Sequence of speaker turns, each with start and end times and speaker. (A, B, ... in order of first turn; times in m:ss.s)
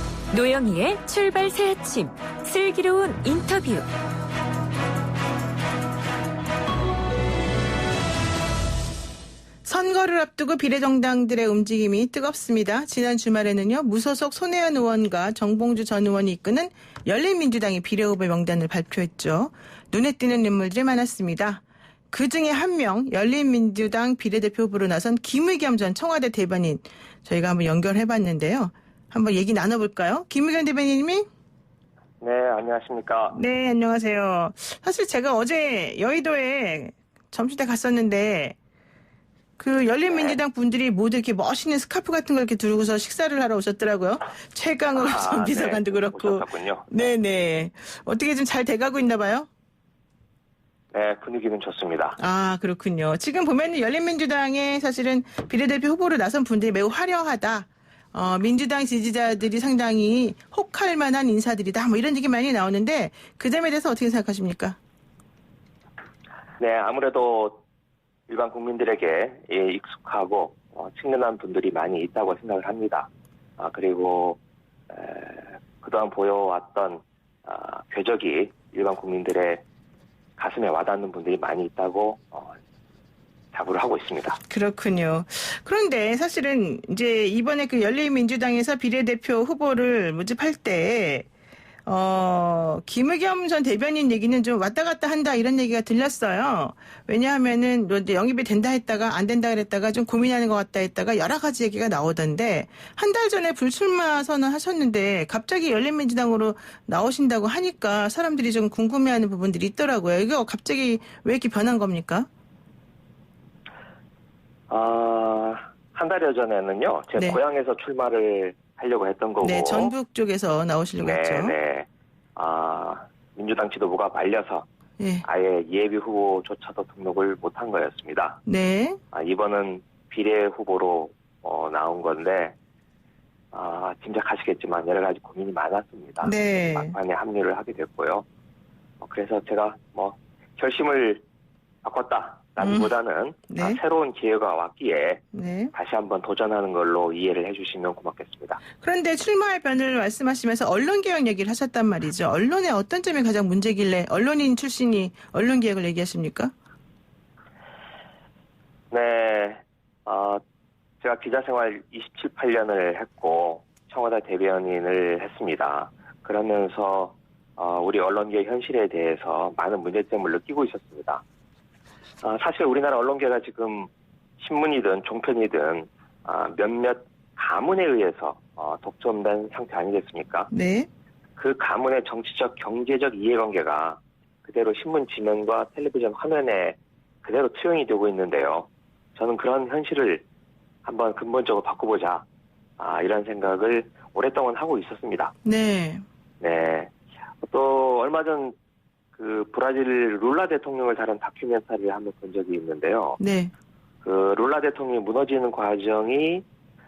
0:00.3-0:03.9 A
0:09.6-0:31.2 B
0:32.2-0:33.4 C
0:33.3-0:38.6 B
0:39.6-0:49.5 B
0:40.1-0:40.4 C
0:44.9-0:47.1 C
0:50.9-0:52.2 C
0:52.2-1:04.8 B
1:06.6-1:07.6 C
1:08.3-1:14.4 C
1:14.9-1:19.6 C
1:20.4-1:22.6 C
1:23.5-1:24.4 C
1:24.5-1:31.3 B
1:31.9-1:52.3 B
1:54.7-1:59.9 C
1:59.4-2:01.6 B
2:01.0-2:04.7 C
2:05.0-2:05.2 B
2:05.2-2:08.4 C
2:08.5-2:09.0 B
2:09.1-2:12.6 C
2:13.5-2:18.2 C
2:16.2-2:17.0 B
2:19.0-2:21.2 C
2:21.8-2:25.2 C
2:22.6-2:22.9 B
2:23.5-2:23.8 B
2:25.3-2:25.7 B
2:25.7-2:28.6 C
2:28.8-2:36.5 B
2:38.9-2:40.4 C
2:41.0-2:51.2 C
2:52.2-3:00.5 C
3:00.5-3:00.9 B
3:01.4-3:10.2 C
3:10.8-3:12.2 C
3:12.8-3:15.3 C
3:15.4-3:16.0 B
3:16.4-3:16.9 C
3:17.4-3:18.6 C
3:19.2-3:23.2 C
3:23.2-3:23.5 B
3:24.0-3:26.4 C